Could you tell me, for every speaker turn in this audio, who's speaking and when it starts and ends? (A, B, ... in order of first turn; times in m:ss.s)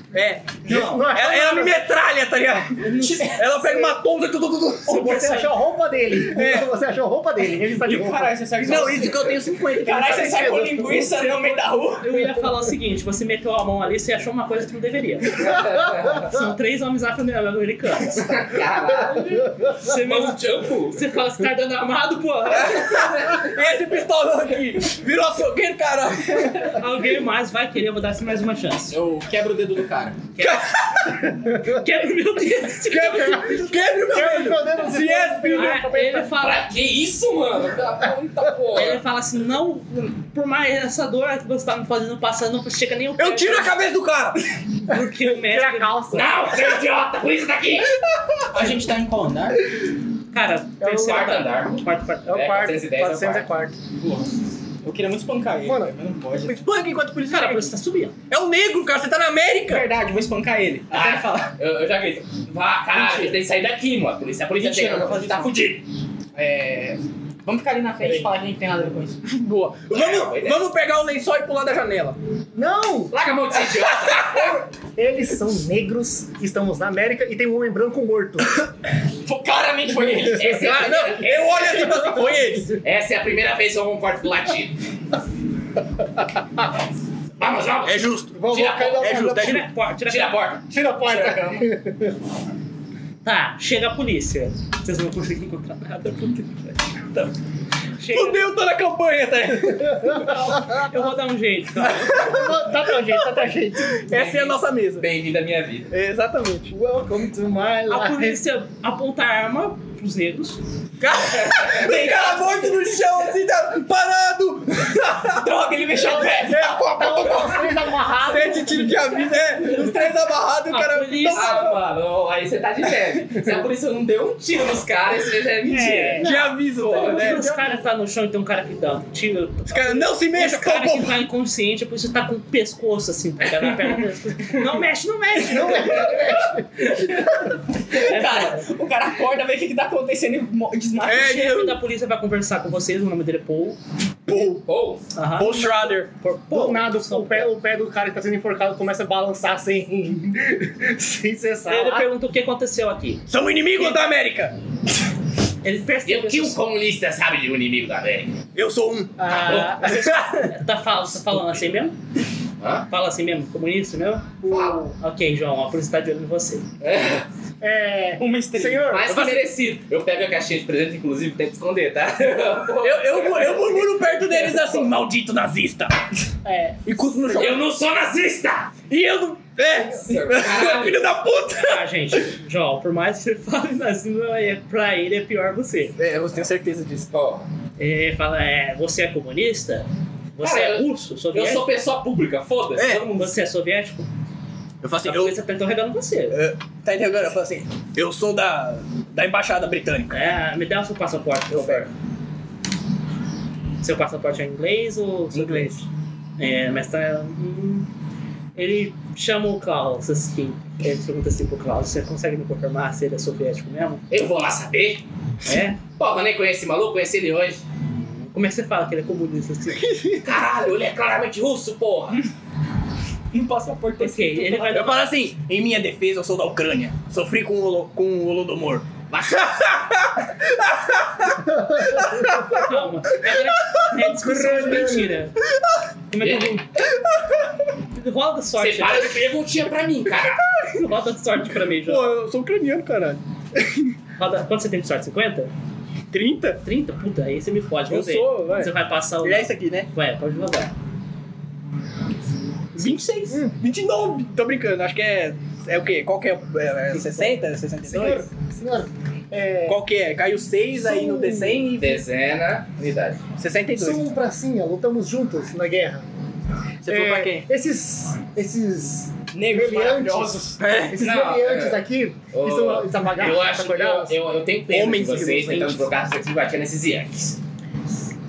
0:00.1-0:05.1 A
0:00.6-0:01.9 B
0:00.7-0:01.1 C
0:02.8-0:03.6 C
0:03.6-0:03.9 B
0:04.9-0:08.3 B
0:04.9-0:05.6 C
0:06.1-0:06.7 A
0:07.7-0:12.2 D
0:08.6-0:10.7 A
0:10.2-0:11.2 B
0:12.0-0:18.3 C
0:15.4-0:16.3 E
0:18.1-0:21.0 E
0:19.8-0:23.2 C
0:22.6-0:26.8 A
0:22.8-0:23.5 E
0:26.6-0:29.0 C
0:28.9-0:30.3 D
0:30.4-0:30.7 C
0:30.4-0:31.3 A
0:31.6-0:33.7 C
0:32.8-0:35.9 A
0:33.0-0:36.3 B
0:35.5-0:36.7 C
0:36.4-0:39.0 E
0:38.7-0:43.7 C
0:43.2-0:44.4 A
0:44.9-0:46.5 C
0:45.3-0:46.3 B
0:46.1-0:48.0 E
0:48.5-0:49.6 D
0:50.3-0:52.6 C
0:50.8-0:51.3 B
0:50.8-0:53.5 E
0:52.3-0:53.8 B
0:54.0-0:54.3 D
0:54.8-0:56.7 D
0:55.6-0:55.9 B
0:56.4-0:57.7 A
0:57.3-0:58.1 C
0:58.3-0:59.9 A
0:59.7-1:01.5 D
1:00.9-1:05.5 E
1:02.9-1:03.3 A
1:04.6-1:05.8 A
1:06.4-1:09.2 D
1:09.2-1:12.2 A
1:09.9-1:10.7 E
1:12.5-1:13.1 B
1:13.1-1:14.6 E
1:14.2-1:18.6 B
1:19.2-1:20.8 D
1:20.2-1:24.8 E
1:20.4-1:22.8 A
1:27.4-1:29.3 E
1:27.8-1:28.4 A
1:28.3-1:29.7 B
1:29.0-1:29.7 A
1:29.4-1:30.4 C
1:30.0-1:31.4 E
1:30.7-1:32.2 B
1:31.1-1:31.7 D
1:33.2-1:37.3 C
1:38.0-1:38.5 C
1:38.1-1:40.3 A
1:39.9-1:40.9 B
1:40.2-1:42.4 C
1:41.8-1:42.6 A
1:42.1-1:44.1 B
1:43.4-1:45.1 A
1:44.1-1:45.9 E
1:45.9-1:46.7 A
1:46.7-1:48.4 B
1:47.9-1:50.6 C
1:51.0-1:55.5 A
1:51.3-1:51.8 E
1:51.8-1:53.1 D
1:55.3-1:56.9 D
1:55.9-1:59.0 B
1:56.3-1:57.6 A
1:57.1-1:57.7 E
1:58.2-2:01.8 A
1:59.8-2:00.1 D
2:00.7-2:01.6 C
2:01.3-2:07.4 E
2:05.7-2:06.3 C
2:05.7-2:06.6 B
2:06.2-2:07.5 A
2:07.0-2:16.2 C
2:07.2-2:07.8 B
2:09.7-2:11.2 A
2:15.4-2:16.7 B
2:15.7-2:17.1 E
2:17.9-2:18.7 C
2:17.9-2:21.6 D
2:21.0-2:21.8 A
2:21.1-2:23.8 C
2:24.3-2:24.6 A
2:24.4-2:25.0 E
2:25.2-2:27.5 C
2:25.4-2:26.1 A
2:26.5-2:32.1 B
2:31.7-2:33.2 C
2:33.3-2:34.6 A
2:33.8-2:34.0 C
2:35.6-2:36.6 C
2:36.1-2:38.4 E
2:38.6-2:39.2 A
2:39.2-2:40.0 B
2:39.3-2:42.0 C
2:39.7-2:40.5 A
2:42.6-2:42.9 E
2:42.9-2:44.4 C
2:44.4-2:44.9 B
2:44.5-2:44.9 E
2:45.0-2:46.7 C
2:46.8-2:47.3 E
2:47.6-2:49.2 B
2:48.2-2:48.9 D
2:48.9-2:54.9 E
2:49.1-2:49.4 A
2:52.8-2:56.0 A
2:56.4-2:56.8 B
2:56.9-2:57.7 A
2:57.3-2:58.7 E
2:58.9-3:02.2 A
2:59.6-3:01.1 E
3:01.5-3:06.0 C
3:06.0-3:07.1 A
3:07.1-3:07.4 E
3:07.8-3:11.7 C
3:10.4-3:13.3 E
3:12.8-3:13.2 A
3:13.1-3:14.1 C
3:14.8-3:15.4 A
3:15.0-3:16.4 C
3:16.3-3:20.2 A
3:20.1-3:21.9 C
3:21.5-3:21.8 A
3:23.8-3:25.9 C
3:25.3-3:25.6 A
3:26.4-3:27.9 C
3:28.6-3:34.0 C
3:34.1-3:35.0 E
3:35.4-3:35.8 C
3:36.0-3:37.6 E
3:37.9-3:40.0 C
3:40.2-3:42.2 E
3:43.3-3:44.7 D
3:44.0-3:45.1 C
3:44.7-3:52.6 A
3:49.1-3:49.7 E
3:51.4-3:52.4 B
3:52.3-3:55.4 C
3:54.0-3:55.2 B
3:56.1-3:56.7 C
3:56.2-3:56.6 E
3:58.0-3:59.3 C
3:58.6-4:00.4 E
4:00.7-4:02.2 C
4:01.8-4:03.9 A
4:04.2-4:05.5 C
4:06.1-4:06.6 A
4:06.6-4:10.7 C
4:07.9-4:09.9 A
4:12.8-4:18.3 A
4:13.3-4:13.6 B
4:16.9-4:17.3 C
4:17.9-4:19.8 B
4:19.7-4:22.0 A
4:20.7-4:21.7 B
4:21.8-4:23.2 E
4:23.4-4:24.0 A
4:23.8-4:26.0 B
4:26.8-4:27.5 A
4:26.8-4:34.2 B
4:29.3-4:30.6 D
4:30.6-4:31.0 A
4:31.0-4:31.8 E
4:32.3-4:37.4 E
4:34.7-4:35.9 A